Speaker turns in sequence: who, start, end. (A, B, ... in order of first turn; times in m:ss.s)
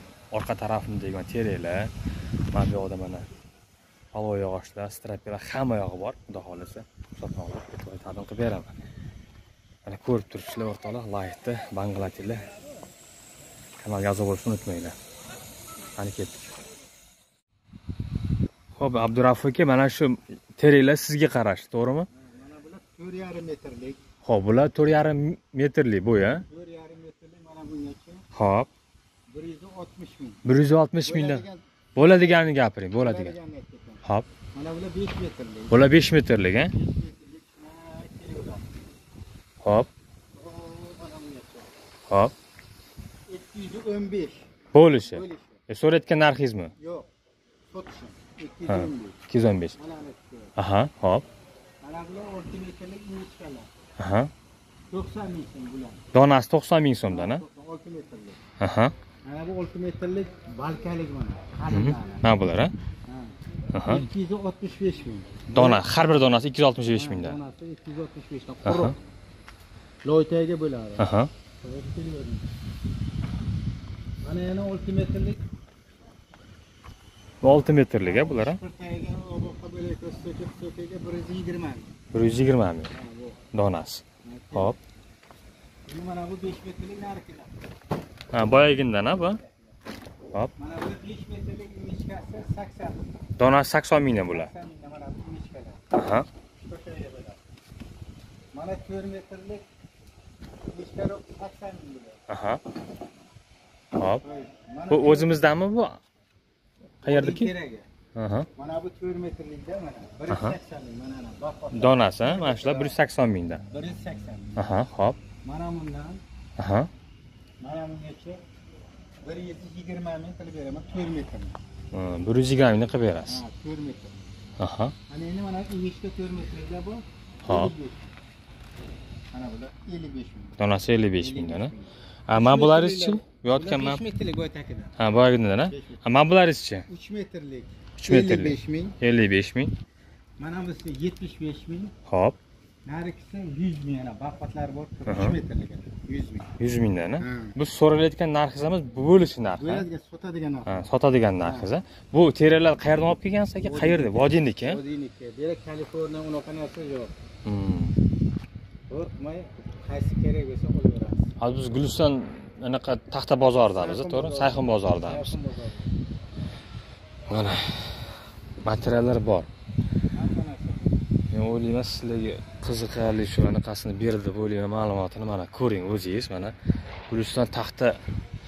0:00.3-0:01.9 A
0:02.5-0:03.3 A
0:04.1-0:08.8 A
0:09.9-0:12.5 A
0:13.8-0:15.0 A
0:16.0-0:16.5 A
0:18.8-0:22.1 A
0:22.1-0:24.0 B
0:24.2-0:26.4 A
0:26.2-0:28.2 B
0:28.3-0:28.7 A
0:29.3-0:30.4 B
0:30.4-0:33.3 A
0:31.0-0:35.8 B
0:35.7-0:36.7 A
0:36.7-0:38.7 B
0:39.6-0:39.9 A
0:40.3-0:41.7 B
0:43.3-0:44.4 B
0:44.7-0:46.7 A
0:45.0-0:45.6 B
0:46.8-0:47.1 B
0:47.7-0:49.2 B
0:48.7-0:49.8 A
0:49.8-0:50.5 B
0:50.6-0:51.2 A
0:51.8-0:53.7 B
0:54.0-0:54.3 A
0:54.9-0:56.0 B
0:56.1-0:57.4 A
0:57.1-0:58.4 B
0:58.6-0:58.9 A
0:59.2-1:02.3 B
1:01.7-1:02.7 A
1:03.1-1:05.8 B
1:03.7-1:04.1 A
1:05.5-1:07.4 A
1:06.8-1:09.0 B
1:08.6-1:08.9 A
1:10.0-1:11.1 B
1:11.0-1:11.3 A
1:11.6-1:12.4 B
1:14.2-1:15.4 B
1:17.4-1:18.6 A
1:18.0-1:21.9 B
1:22.1-1:22.9 A
1:22.9-1:23.4 B
1:23.5-1:24.8 A
1:24.2-1:24.7 B
1:25.9-1:27.5 B
1:28.3-1:29.4 A
1:30.6-1:33.2 B
1:33.4-1:34.5 A
1:34.2-1:35.8 B
1:35.9-1:36.3 A
1:36.6-1:37.4 B
1:38.5-1:39.7 B
1:40.7-1:42.2 B
1:42.3-1:42.6 A
1:43.9-1:44.2 A
1:44.2-1:45.4 B
1:44.9-1:46.0 A
1:47.0-1:47.5 A
1:47.0-1:47.9 B
1:48.2-1:48.5 A
1:48.6-1:53.0 B
1:50.3-1:50.6 A
1:51.7-1:53.6 A
1:53.7-1:54.7 B
1:54.6-1:55.2 A
1:55.4-1:56.2 B
1:56.6-1:56.9 A
1:57.6-1:58.4 B
1:59.2-2:01.6 B
2:01.9-2:03.4 A
2:03.3-2:04.2 B
2:04.6-2:04.9 A
2:05.1-2:08.1 B
2:07.4-2:07.7 A
2:09.3-2:10.6 B
2:10.6-2:11.7 A
2:11.2-2:15.0 B
2:12.3-2:14.0 A
2:15.0-2:16.9 A
2:15.7-2:16.0 B
2:16.9-2:19.0 B
2:18.0-2:19.7 A
2:20.4-2:21.9 B
2:22.1-2:22.4 A
2:22.8-2:26.5 B
2:25.1-2:25.4 A
2:26.6-2:29.8 A
2:27.2-2:27.6 B
2:29.5-2:30.8 B
2:30.7-2:34.8 A
2:31.4-2:31.7 B
2:33.6-2:37.1 B
2:37.4-2:38.0 A
2:38.9-2:41.3 B
2:41.4-2:45.4 A
2:43.6-2:45.9 B
2:47.3-2:48.1 A
2:48.6-2:49.5 A
2:50.1-2:51.0 B
2:51.3-2:56.6 A
2:57.1-2:58.0 A